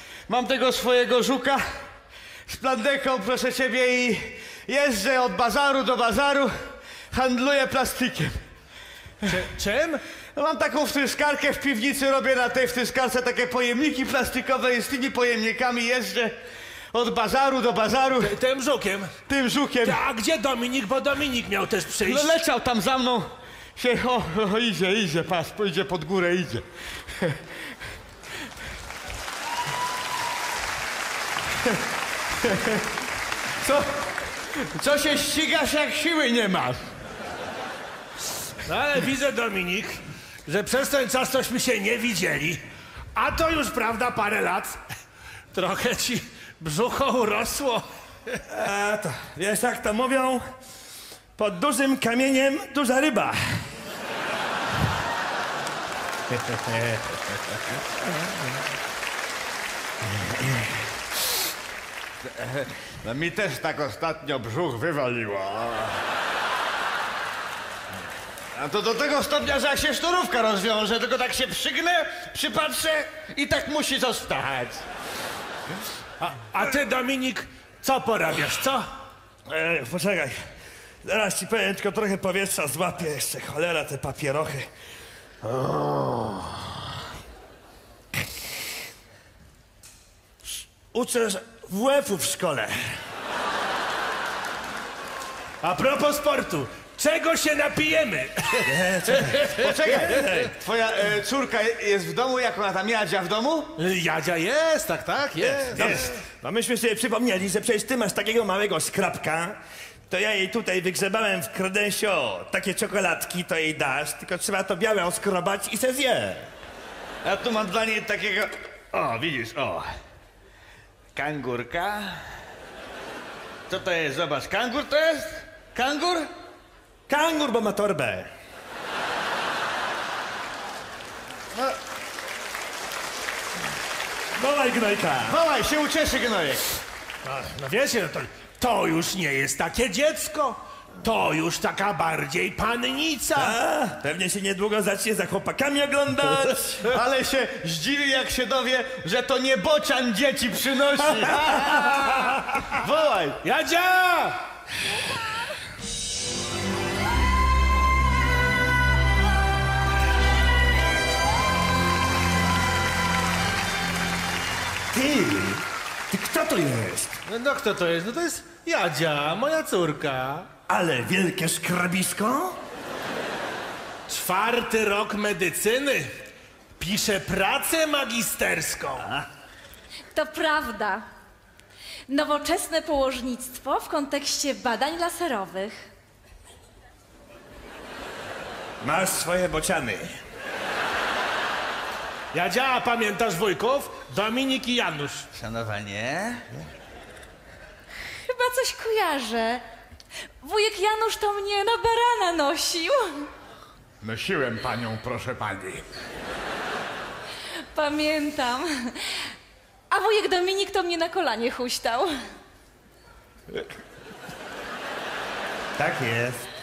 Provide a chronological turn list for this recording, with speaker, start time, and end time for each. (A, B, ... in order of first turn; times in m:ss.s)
0:00.3-0:01.6 A
0:02.5-0:06.5 A
0:07.1-0:08.4 A
0:09.2-0:10.0 B
0:10.3-0:16.4 A
0:16.9-0:18.3 A
0:18.2-0:19.1 B
0:19.3-0:20.0 A
0:19.8-0:22.4 B
0:22.0-0:26.6 A
0:32.4-0:32.8 A
0:33.6-0:33.9 A
0:34.5-0:36.8 A
0:38.6-0:42.6 B
0:43.1-0:44.8 B
0:45.5-0:48.3 B
0:48.5-0:50.4 C
0:51.4-0:53.6 C
0:56.4-0:57.0 C
1:02.2-1:06.0 A
1:08.5-1:14.8 A
1:16.2-1:18.9 B
1:19.5-1:20.3 C
1:21.0-1:24.7 C
1:25.4-1:26.5 C
1:30.9-1:32.9 C
1:35.6-1:39.6 B
1:38.6-1:40.5 C
1:39.5-1:43.7 A
1:43.8-1:46.1 B
1:45.5-1:46.1 A
1:45.7-1:49.6 C
1:50.1-1:56.5 C
1:57.2-1:59.9 A
2:01.1-2:02.2 A
2:03.7-2:06.3 A
2:07.1-2:08.3 C
2:14.4-2:15.4 C
2:15.3-2:16.6 A
2:17.2-2:23.6 B
2:23.3-2:26.9 C
2:26.8-2:33.4 A
2:31.4-2:31.9 C
2:33.4-2:34.4 B
2:44.9-2:47.2 C
2:47.2-2:50.5 B
2:50.7-2:52.6 C
2:54.1-2:56.1 B
2:56.8-2:59.1 B
3:00.1-3:01.0 D
3:02.1-3:05.8 D
3:08.8-3:10.1 C
3:12.3-3:15.3 B
3:15.3-3:16.4 A
3:18.2-3:19.6 D
3:20.4-3:23.3 D
3:24.0-3:25.8 A
3:27.7-3:29.1 D
3:29.9-3:32.1 D
3:35.8-3:36.5 C